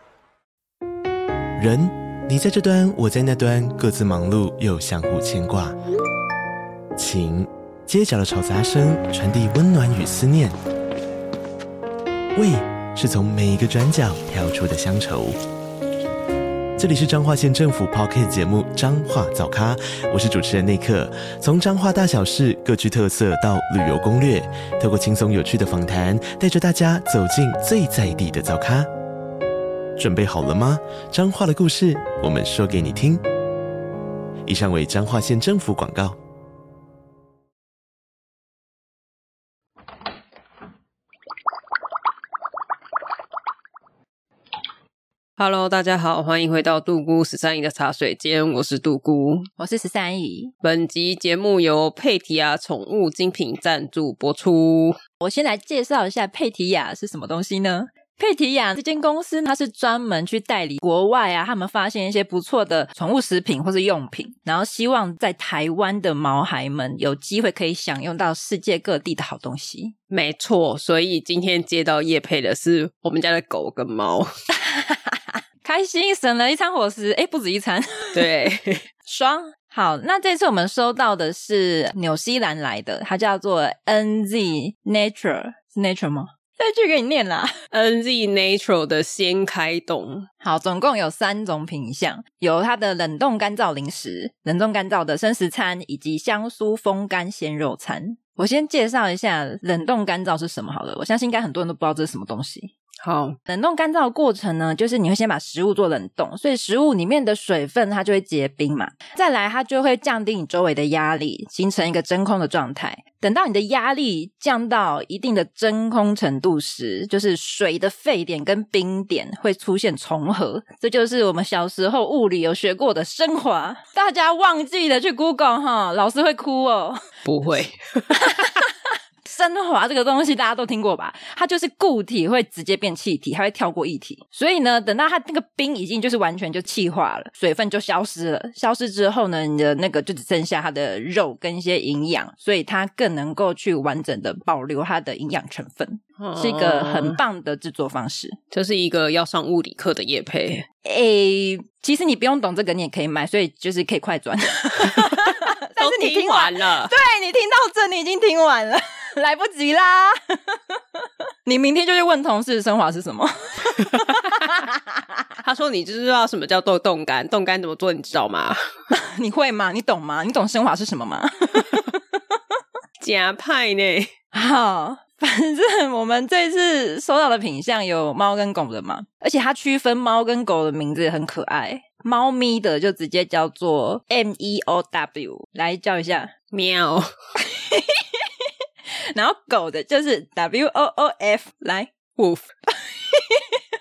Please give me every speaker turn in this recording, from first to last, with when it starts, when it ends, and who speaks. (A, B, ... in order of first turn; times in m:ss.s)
0:01.6-0:05.8 A
0:07.0-0:10.6 A
0:12.3-0:15.4 A
0:16.8-0:28.9 A
0:30.0-0:33.2 A
0:34.4-0:36.2 A
0:45.4-0:49.5 B
0:49.6-0:50.5 C
0:50.6-0:55.0 B
0:55.2-1:09.9 C
1:10.1-1:14.3 B
1:14.6-1:18.3 C
1:18.1-1:18.8 B
1:19.0-1:27.5 C
1:27.7-1:30.3 B
1:30.4-1:42.7 C
1:43.0-1:43.4 B
1:43.5-2:07.0 C
2:07.2-2:08.2 B
2:08.1-2:28.4 C
2:26.2-2:27.2 B
2:28.5-2:30.6 B
2:30.8-2:45.0 C
2:34.8-2:36.9 B
2:45.4-2:48.6 B
2:48.9-2:52.4 C
2:53.0-2:54.1 B
2:54.3-3:06.3 C
3:06.5-3:07.1 B
3:07.4-3:08.2 C
3:09.1-3:11.9 C
3:12.2-3:12.5 B
3:12.8-3:13.4 C